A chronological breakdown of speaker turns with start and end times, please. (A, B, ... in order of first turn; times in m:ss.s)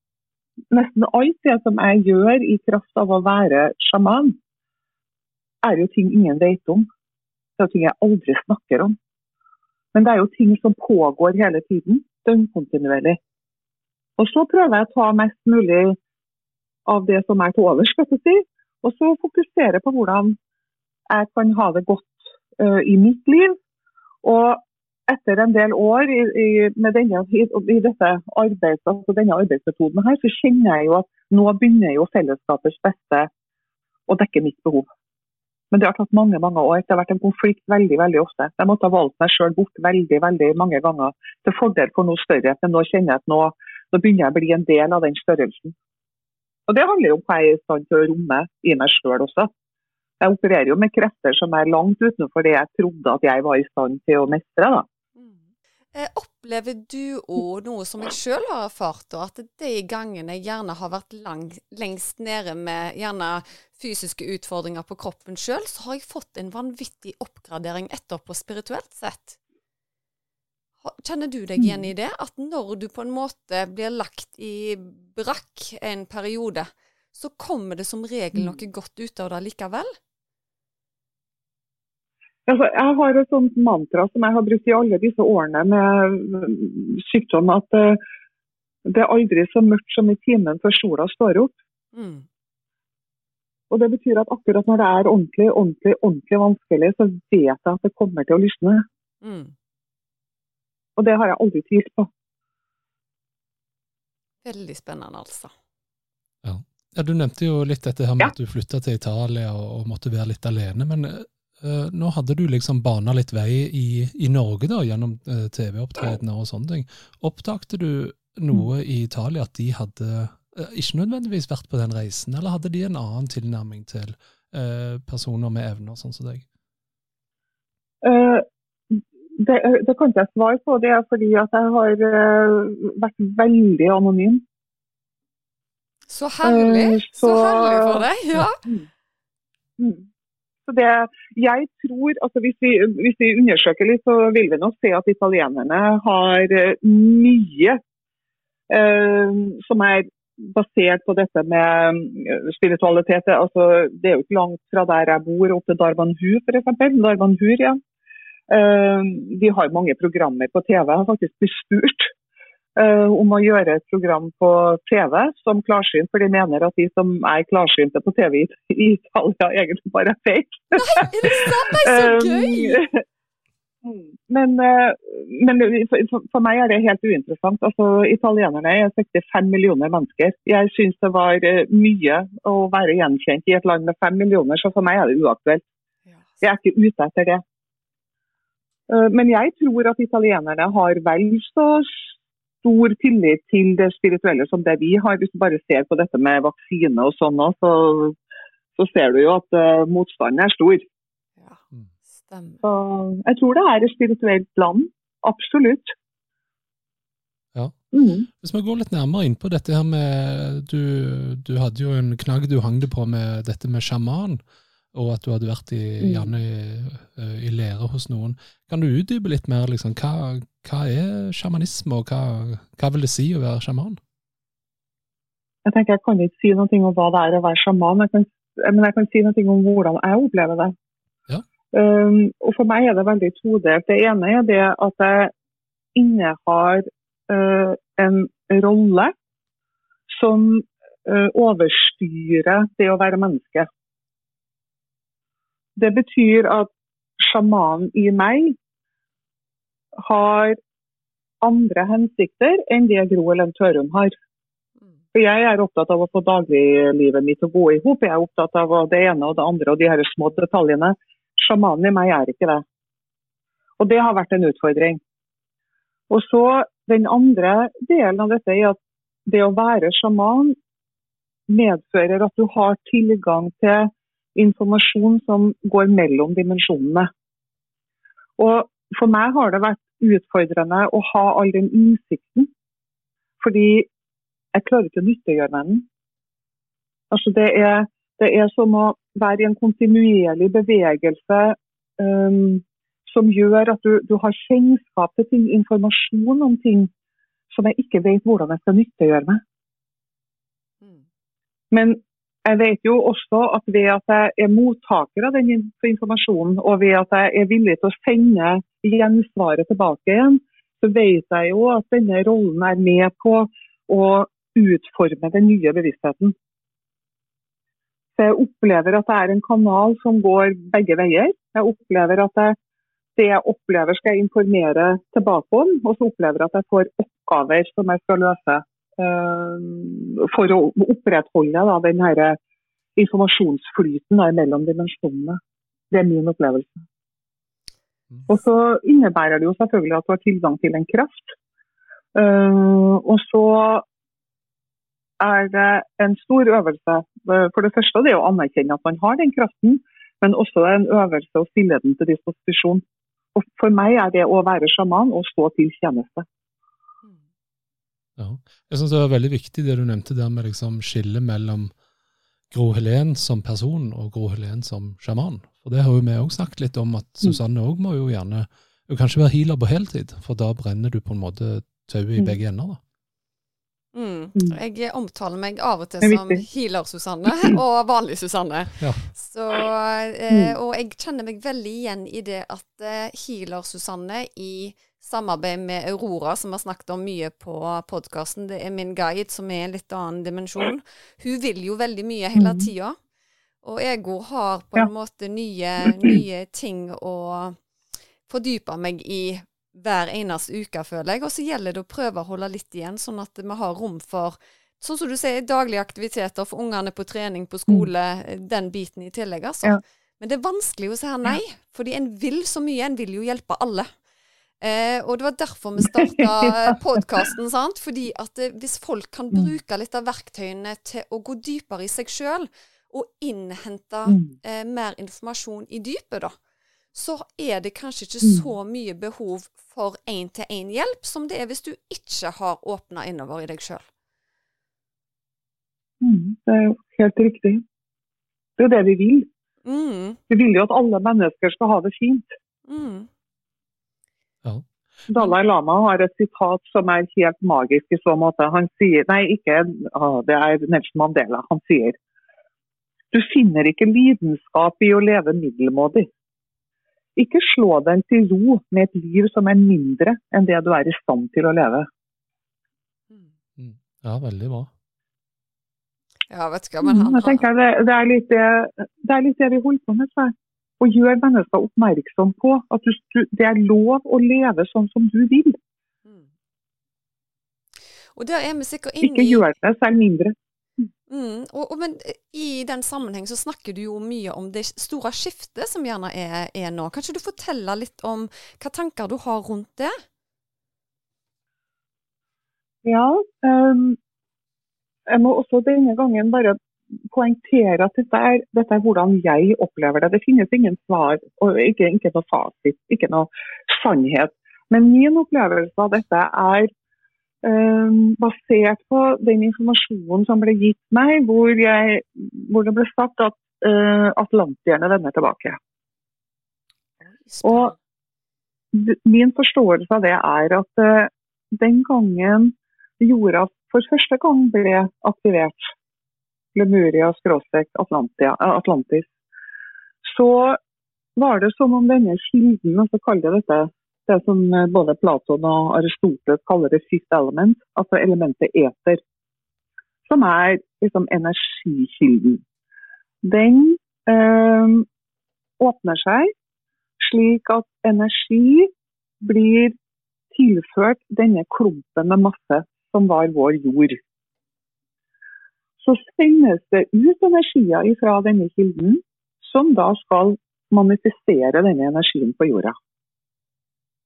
0:00.7-0:04.4 A
0:05.6-0:06.9 A
0:07.6-0:08.9 A
0:09.9-0:13.2 A
0:14.2-0:16.0 A
0:16.9-0:20.4 A
0:21.1-0:23.6 A
0:24.2-0:33.3 A
0:34.1-0:34.9 A
0:35.7-0:45.7 A
0:46.7-0:49.5 A
0:50.2-0:54.9 A
0:55.9-1:09.4 B
1:10.8-1:19.9 B
1:11.6-1:11.9 A
1:22.5-1:28.0 A
1:28.9-1:31.6 A
1:31.9-1:32.2 B
1:33.7-1:38.8 A
1:39.2-1:39.5 B
1:41.0-1:42.1 A
1:44.4-1:45.5 B
1:46.4-2:06.4 C
2:08.0-2:14.4 A
2:16.1-2:18.6 B
2:16.4-2:18.0 A
2:19.8-2:20.1 A
2:20.7-2:27.8 A
2:28.7-2:37.8 A
2:38.5-2:42.1 A
2:42.8-2:53.0 A
2:50.8-2:52.8 B
2:53.8-3:05.6 A
3:06.1-3:06.4 B
3:06.4-3:07.4 A
3:08.9-3:18.2 A
3:18.8-3:20.8 A
3:22.2-3:22.6 B
3:22.6-3:25.9 A
3:27.9-3:28.3 A
3:28.4-3:34.4 C
3:34.9-3:44.0 C
3:36.0-3:36.3 A
3:45.6-3:50.7 A
3:51.7-3:55.3 A
3:56.0-3:59.1 A
4:00.1-4:03.7 A
4:05.8-4:08.6 A
4:10.0-4:10.6 A
4:11.4-4:14.2 A
4:15.1-4:22.6 A
4:23.8-4:25.0 A
4:26.1-4:30.6 A
4:31.5-4:37.1 A
4:38.4-4:42.5 A
4:43.4-4:43.9 A
4:44.5-4:45.9 A
4:47.1-4:56.9 A
4:57.5-4:59.4 A
5:01.7-5:16.4 A
5:18.2-5:22.6 A
5:23.2-5:32.4 A
5:33.0-5:35.4 A
5:35.9-5:36.8 A
5:38.3-5:41.4 A
5:42.2-5:43.8 A
5:45.2-5:52.8 A
5:53.4-5:56.3 A
5:58.2-6:01.7 C
6:02.5-6:12.8 C
6:13.9-6:33.0 B
6:16.0-6:16.4 A
6:18.8-6:19.1 C
6:20.3-6:20.6 A
6:32.4-6:32.7 A
6:33.6-6:37.6 B
6:38.3-6:53.9 B
6:54.6-7:06.3 B
6:56.1-6:56.8 A
7:04.1-7:04.3 A
7:06.9-7:13.8 B
7:08.2-7:08.5 A
7:16.0-7:17.6 A
7:18.6-7:19.3 A
7:19.6-7:20.2 B
7:20.3-7:22.3 A
7:22.7-7:23.1 B
7:25.1-7:32.0 A
7:33.1-7:36.1 A
7:37.2-7:41.9 A
7:43.6-7:44.7 C
7:46.3-7:47.5 B
7:46.8-7:55.6 A
7:58.2-7:59.5 B
7:59.0-8:00.4 A
8:01.1-8:10.0 B
8:12.8-8:14.0 A
8:15.1-8:16.6 A
8:17.1-8:26.7 A
8:27.4-8:35.6 A
8:37.0-8:37.8 B
8:37.4-8:37.7 A
8:38.7-8:45.7 A
8:46.6-8:49.1 A
8:50.0-8:50.6 A
8:51.2-8:59.0 A
9:00.1-9:02.4 A
9:03.2-9:04.9 A
9:05.6-9:06.3 A
9:07.0-9:08.7 A
9:09.2-9:09.8 A
9:10.3-9:14.0 A
9:15.8-9:22.7 A